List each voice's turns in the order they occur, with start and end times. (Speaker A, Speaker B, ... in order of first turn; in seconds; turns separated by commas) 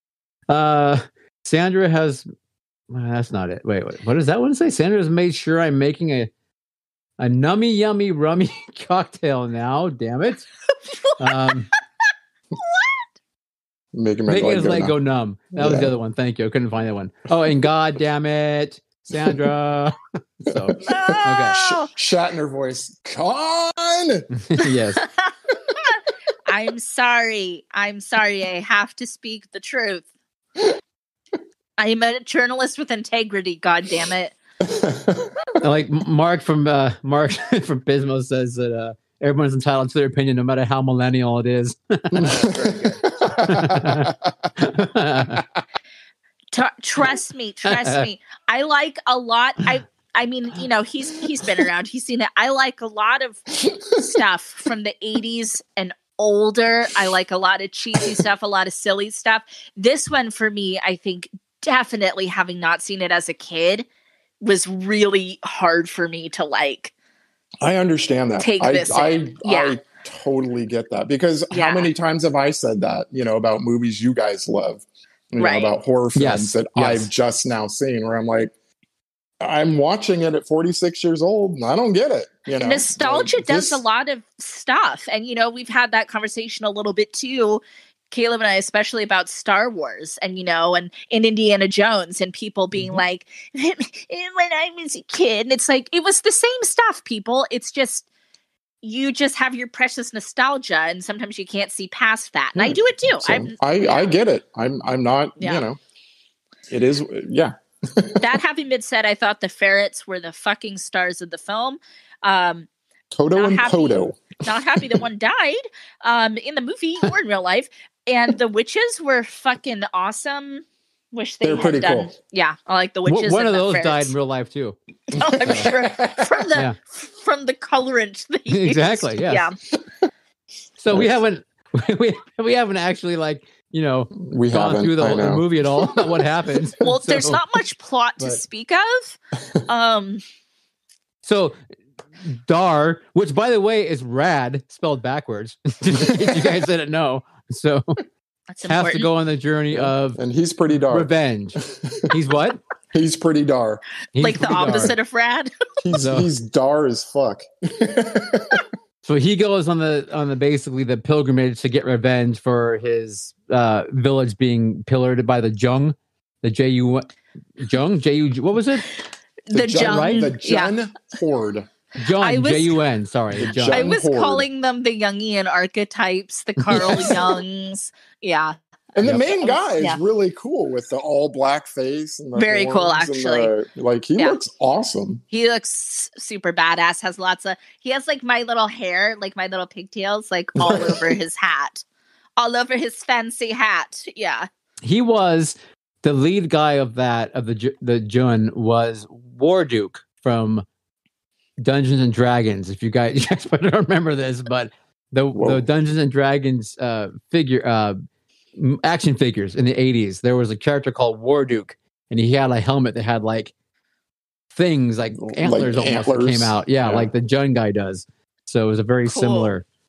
Speaker A: 0.5-2.2, Speaker A: 2.9-6.3, Speaker A: 7.2-10.5, Speaker B: 10.9-11.5, Speaker A: 11.2-11.7, Speaker B: 12.6-12.9, Speaker C: 13.9-14.9, Speaker A: 14.3-21.6, Speaker C: 15.6-15.9, Speaker C: 19.1-19.4, Speaker C: 20.5-24.3, Speaker B: 20.8-21.9, Speaker A: 24.4-25.0, Speaker B: 25.0-30.1, Speaker B: 31.8-34.4, Speaker C: 34.6-35.5, Speaker A: 35.6-45.4, Speaker C: 42.1-44.5, Speaker B: 46.5-63.9, Speaker A: 47.6-48.1, Speaker C: 53.7-54.0, Speaker B: 64.4-66.9, Speaker C: 67.6-78.5, Speaker B: 68.4-69.8, Speaker B: 71.5-71.9, Speaker B: 75.4-75.7, Speaker A: 76.2-77.1, Speaker C: 79.4-83.8, Speaker B: 82.6-98.1, Speaker B: 98.8-104.1, Speaker C: 102.6-105.8, Speaker B: 105.4-105.7, Speaker C: 106.7-108.4, Speaker B: 108.2-112.7, Speaker C: 113.1-114.4, Speaker B: 113.3-124.1, Speaker C: 121.4-122.1, Speaker A: 123.1-124.8, Speaker B: 125.1-129.6, Speaker C: 125.1-126.5, Speaker A: 125.4-125.7, Speaker A: 128.5-129.5, Speaker A: 130.8-137.4, Speaker C: 134.2-136.3, Speaker B: 136.8-140.2, Speaker A: 141.2-141.6, Speaker A: 142.2-148.0, Speaker C: 146.0-146.6, Speaker B: 148.5-149.1, Speaker A: 148.6-150.2, Speaker C: 149.7-152.1, Speaker A: 150.9-152.6, Speaker C: 152.9-153.8, Speaker A: 154.2-155.0, Speaker B: 154.2-155.5, Speaker C: 154.5-154.8, Speaker C: 155.8-158.7, Speaker A: 156.0-156.3, Speaker A: 159.0-168.9, Speaker B: 169.5-170.7, Speaker C: 169.5-171.7, Speaker A: 169.8-170.3, Speaker A: 172.0-173.9, Speaker B: 172.2-172.8, Speaker C: 173.3-174.5, Speaker B: 173.7-178.6, Speaker C: 176.7-177.2, Speaker A: 176.8-177.0, Speaker C: 178.9-185.2, Speaker B: 179.4-180.0, Speaker B: 182.3-183.5, Speaker B: 185.3-191.8, Speaker C: 190.6-191.1, Speaker B: 192.4-194.5, Speaker A: 194.8-200.6, Speaker A: 201.6-208.0, Speaker C: 205.3-205.6, Speaker A: 208.6-213.5, Speaker A: 214.5-219.7, Speaker C: 215.2-217.1, Speaker B: 219.1-219.5